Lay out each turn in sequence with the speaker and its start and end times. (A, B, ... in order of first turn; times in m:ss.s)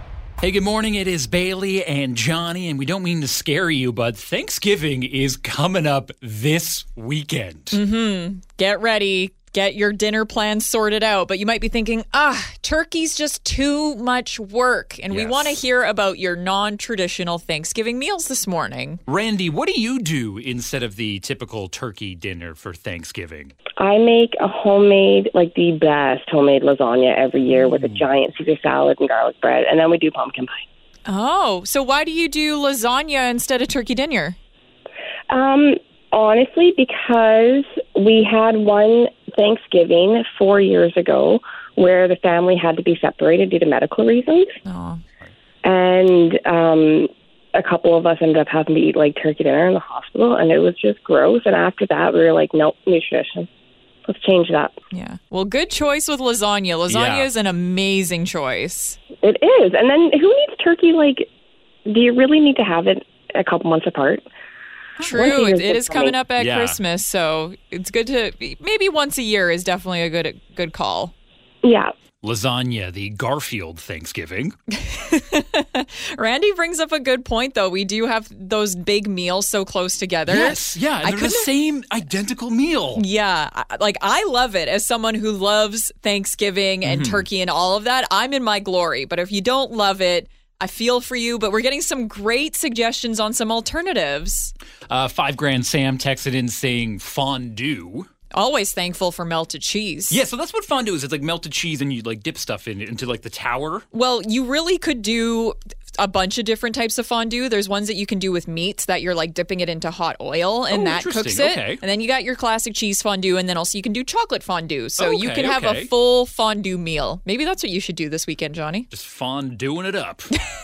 0:00.4-0:07.8 A
0:07.7-0:19.0 B
0:15.1-0:15.6 A
0:19.1-0:23.5 A
0:23.8-0:30.6 C
0:27.6-0:28.0 A
0:31.1-0:34.4 B
0:35.3-0:44.5 C
0:44.7-0:45.0 B
0:45.6-0:53.5 C
0:54.1-0:54.8 C
0:54.9-0:59.0 B
0:56.9-0:57.3 A
0:59.2-1:01.3 C
1:01.9-1:04.3 C
1:05.0-1:11.1 B
1:05.1-1:06.2 C
1:06.4-1:06.8 A
1:11.6-1:11.9 C
1:12.2-1:14.6 A
1:14.7-1:21.5 B
1:20.3-1:23.0 A
1:23.0-1:34.5 B
1:26.8-1:27.3 A
1:34.9-1:38.1 A
1:38.3-1:40.2 B
1:40.1-1:43.9 A
1:43.9-1:58.9 B
1:50.7-1:51.8 A
1:55.0-1:55.9 A
1:58.9-2:00.3 A